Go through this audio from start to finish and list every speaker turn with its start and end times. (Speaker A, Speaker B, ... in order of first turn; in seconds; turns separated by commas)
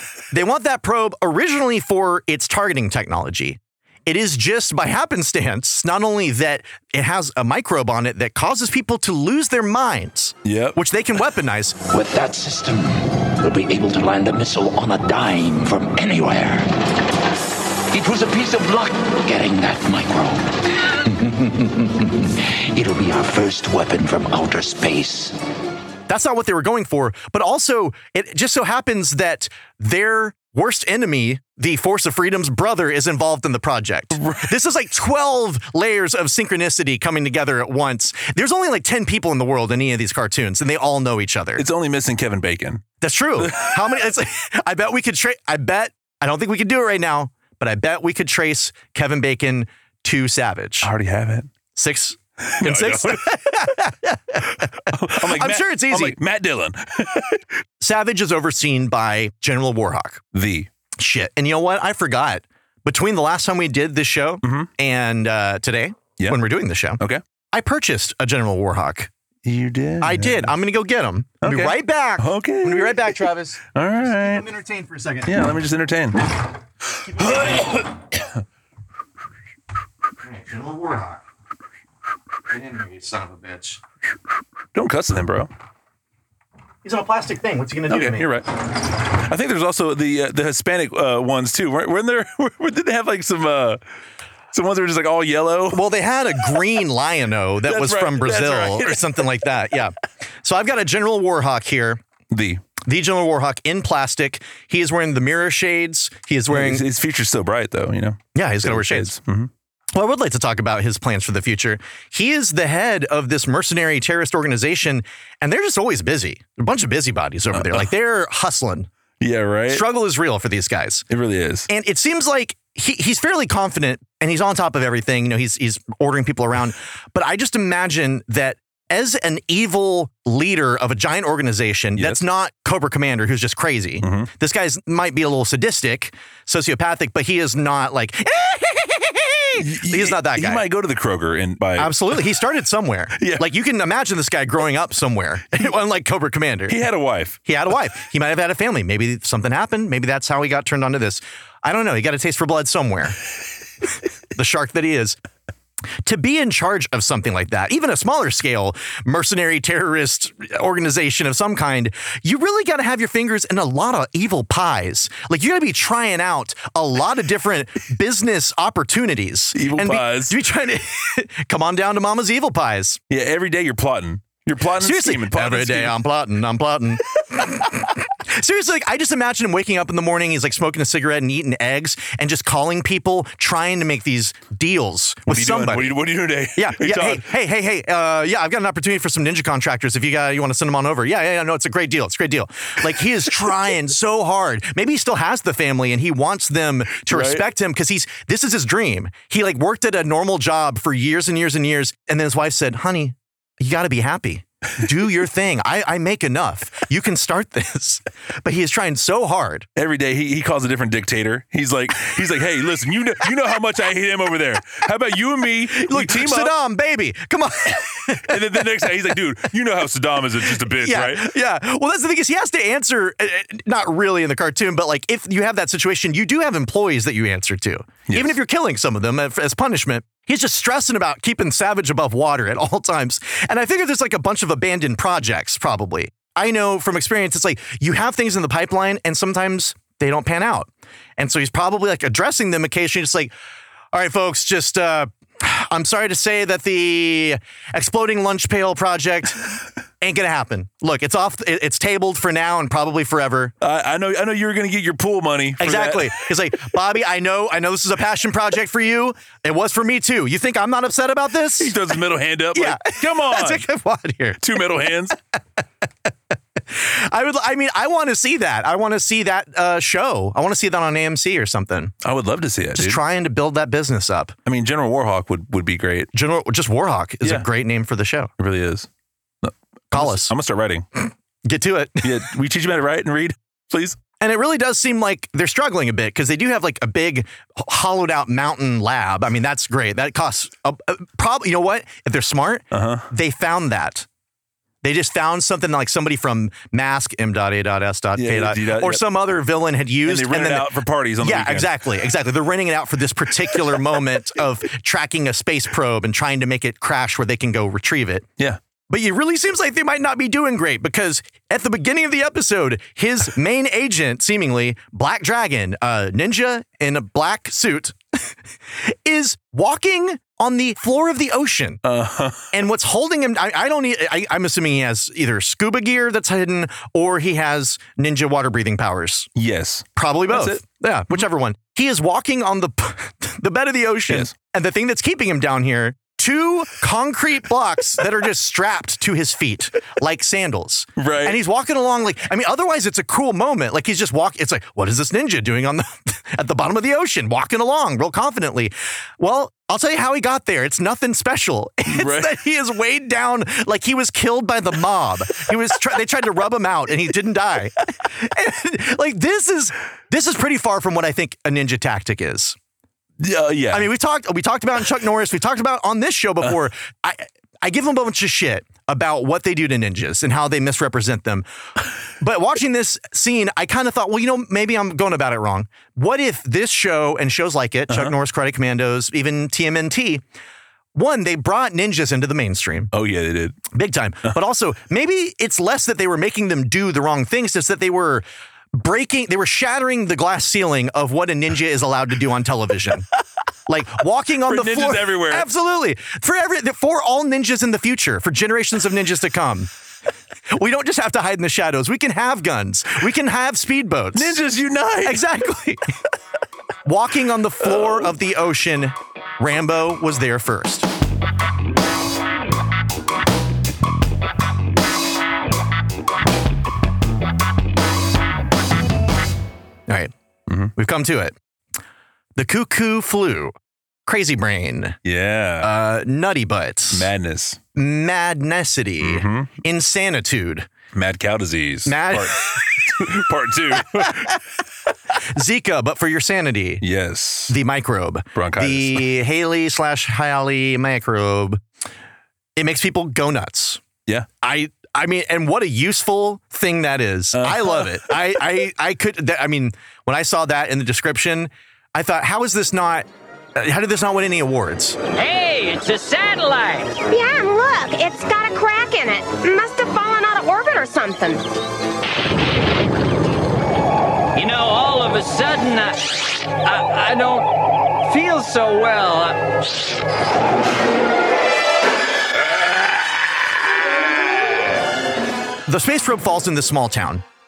Speaker A: 0.3-11.8, Speaker B: 10.4-10.8, Speaker C: 11.9-16.7, Speaker C: 17.9-25.4, Speaker A: 26.1-41.6, Speaker B: 34.1-34.5, Speaker B: 41.6-42.8, Speaker A: 43.0-50.9, Speaker B: 43.4-43.9, Speaker B: 50.8-51.5, Speaker A: 51.8-56.2, Speaker B: 52.4-53.4, Speaker B: 54.5-57.4, Speaker A: 57.8-60.2, Speaker B: 60.3-60.7, Speaker A: 61.0-67.0, Speaker B: 64.4-64.7, Speaker A: 67.5-69.1, Speaker B: 69.5-70.5, Speaker A: 70.0-75.3, Speaker B: 71.4-73.2, Speaker B: 73.7-74.5, Speaker B: 75.2-76.3, Speaker B: 77.0-78.2, Speaker A: 77.2-77.5, Speaker A: 80.2-81.2, Speaker A: 82.5-83.8, Speaker B: 84.7-85.5, Speaker A: 86.8-88.3, Speaker B: 87.9-88.5, Speaker B: 89.1-93.8, Speaker B: 94.5-95.9, Speaker A: 95.7-102.0, Speaker B: 97.6-99.4, Speaker B: 102.3-102.7, Speaker A: 102.8-106.8, Speaker B: 106.5-109.5, Speaker A: 108.3-109.2, Speaker A: 109.9-118.9, Speaker B: 117.5-117.8, Speaker B: 119.2-119.8, Speaker A: 119.7-121.0, Speaker B: 121.1-121.7, Speaker A: 121.7-140.7, Speaker B: 132.0-132.2, Speaker B: 134.0-134.3, Speaker B: 139.6-142.3, Speaker A: 141.8-146.8, Speaker B: 143.2-143.5, Speaker B: 146.7-147.4, Speaker A: 147.4-153.2, Speaker A: 154.3-155.2, Speaker A: 156.0-173.0, Speaker B: 169.6-170.4, Speaker B: 173.1-176.0, Speaker A: 174.8-185.9, Speaker B: 185.3-187.3, Speaker A: 186.6-209.7, Speaker B: 197.1-197.4, Speaker B: 209.8-216.5, Speaker A: 215.7-218.8, Speaker B: 218.1-221.3, Speaker A: 220.7-243.3, Speaker B: 228.1-228.3, Speaker A: 243.9-249.4, Speaker A: 250.0-253.5, Speaker B: 253.6-256.2, Speaker A: 255.6-261.8, Speaker B: 261.6-263.6, Speaker A: 262.5-264.4, Speaker B: 264.4-265.2, Speaker A: 266.7-271.9, Speaker B: 272.0-273.0, Speaker A: 272.8-274.3, Speaker B: 274.5-276.1, Speaker A: 276.1-278.3, Speaker B: 277.2-277.5, Speaker B: 278.4-278.9, Speaker B: 279.4-280.9, Speaker A: 279.9-280.3, Speaker A: 281.4-282.2, Speaker B: 282.0-284.0, Speaker A: 284.2-294.1, Speaker B: 292.7-293.1, Speaker A: 294.8-308.3, Speaker B: 298.2-299.0, Speaker B: 300.0-301.8, Speaker A: 308.9-318.3, Speaker A: 318.9-321.8, Speaker B: 321.8-322.5, Speaker A: 322.5-329.3, Speaker B: 329.4-330.6, Speaker A: 330.0-362.6, Speaker B: 341.0-341.4, Speaker B: 351.9-352.3, Speaker B: 363.2-363.9, Speaker A: 363.7-371.4, Speaker A: 372.2-380.2, Speaker B: 377.9-378.1, Speaker A: 380.9-382.9, Speaker B: 382.9-383.6, Speaker A: 383.7-393.1, Speaker A: 393.7-399.7, Speaker B: 394.4-395.5, Speaker A: 400.5-404.4, Speaker B: 404.1-405.2, Speaker A: 405.0-405.8, Speaker A: 406.9-410.9, Speaker B: 407.7-408.1, Speaker A: 420.8-421.4, Speaker A: 422.4-423.5, Speaker A: 424.1-425.0, Speaker B: 425.1-425.7, Speaker A: 425.6-427.1, Speaker B: 426.9-427.6, Speaker A: 427.8-430.7, Speaker B: 429.0-429.5, Speaker B: 430.9-434.4, Speaker A: 431.9-433.2, Speaker A: 433.9-434.2, Speaker A: 435.3-436.8, Speaker B: 436.8-437.6, Speaker A: 437.5-441.6, Speaker B: 438.4-439.1, Speaker A: 442.6-443.8, Speaker A: 444.4-455.0, Speaker B: 447.3-448.2, Speaker D: 455.1-457.0, Speaker E: 457.1-461.4, Speaker D: 464.4-469.4, Speaker A: 475.7-477.2